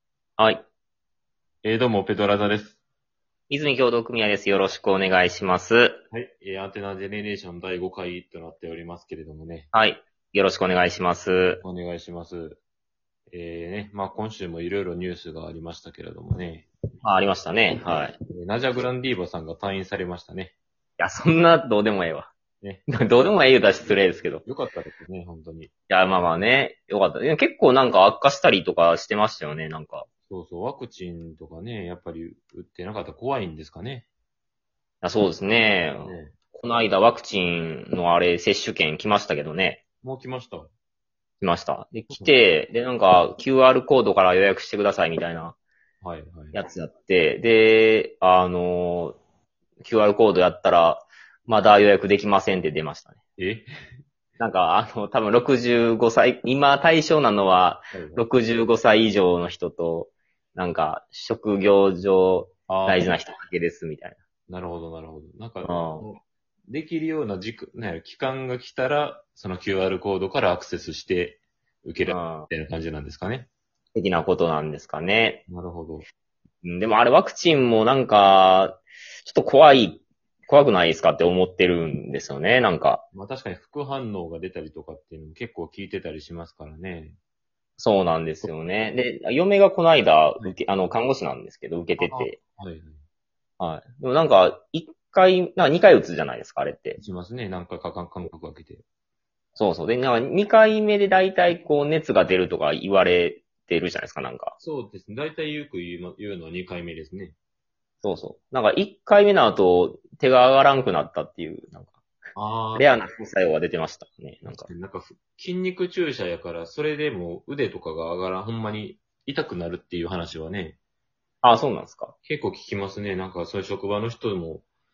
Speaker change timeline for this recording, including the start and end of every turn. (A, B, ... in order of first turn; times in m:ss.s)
0:01.6-0:02.8 A
0:03.5-0:06.0 B
0:06.1-0:09.7 A
0:09.7-0:11.6 B
0:11.5-0:12.6 A
0:13.3-0:16.7 A
0:17.0-0:18.2 B
0:18.3-0:20.5 A
0:21.0-0:22.3 B
0:22.6-0:22.8 A
0:22.9-0:24.4 B
0:24.4-0:25.7 A
0:25.9-0:30.1 B
0:30.3-0:34.1 A
0:35.0-0:39.8 B
0:36.0-0:36.4 A
0:40.0-0:40.7 A
0:41.4-0:45.6 B
0:46.0-0:46.6 A
0:46.5-0:49.2 B
0:49.8-0:53.2 B
0:53.4-0:53.7 A
0:54.4-1:04.2 B
0:57.9-0:58.2 A
1:02.7-1:03.1 A
1:04.5-1:13.5 A
1:05.6-1:06.0 B
1:12.0-1:12.5 B
1:13.9-1:15.4 B
1:15.5-1:16.1 A
1:16.6-1:23.0 B
1:23.1-1:27.2 A
1:27.8-1:32.4 B
1:32.0-1:33.0 A
1:33.6-1:37.0 B
1:37.0-1:38.8 A
1:39.6-1:44.6 B
1:44.6-1:47.3 A
1:48.0-1:52.0 B
1:52.3-1:52.9 A
1:52.7-1:54.7 B
1:54.5-2:00.8 A
2:01.4-2:02.1 B
2:02.2-2:04.6 A